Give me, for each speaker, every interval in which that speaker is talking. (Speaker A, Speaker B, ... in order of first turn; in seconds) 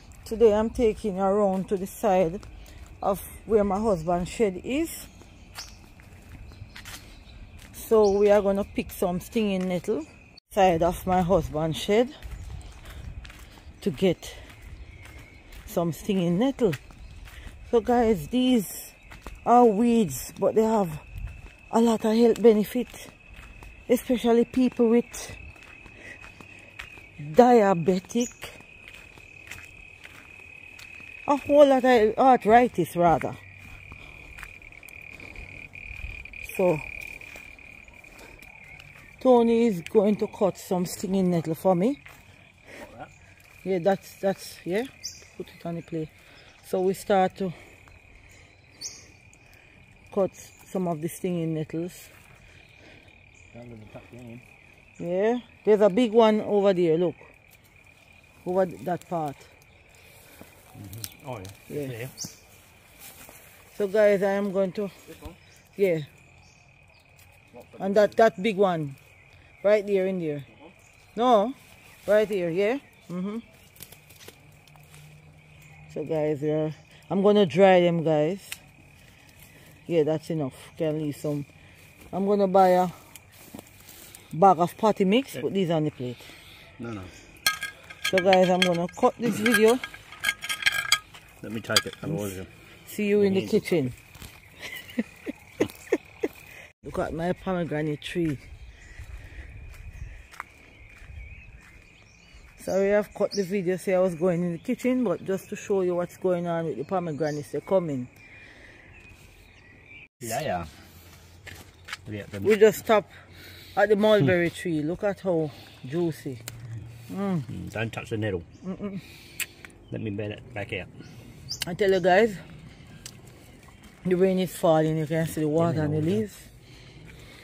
Speaker A: 0.2-2.4, 3.0-5.1, 7.7-12.1, 13.8-14.5, 15.6-16.8, 17.6-21.0, 21.7-23.1, 23.9-25.4, 27.2-28.6, 31.2-33.4, 36.4-36.9, 39.2-42.0, 43.6-47.5, 50.1-52.1, 55.0-57.3, 58.4-59.5, 61.7-62.0, 63.7-65.0, 65.8-66.1, 67.8-69.0, 69.6-70.5, 71.1-73.4, 75.9-78.6, 79.9-81.5, 82.1-83.0, 84.3-86.3, 88.0-89.8, 92.8-94.0, 96.8-98.4, 102.6-108.1, 112.4-113.1, 113.7-116.4, 117.1-117.5, 118.6-119.0, 121.6-122.4, 124.0-126.5
Speaker B: 42.8-43.1, 53.5-54.4, 60.8-62.1, 67.6-67.9, 86.8-87.1, 91.4-92.5, 93.2-93.7, 110.2-110.7, 112.0-112.5, 117.5-118.5, 119.9-120.9, 125.6-126.2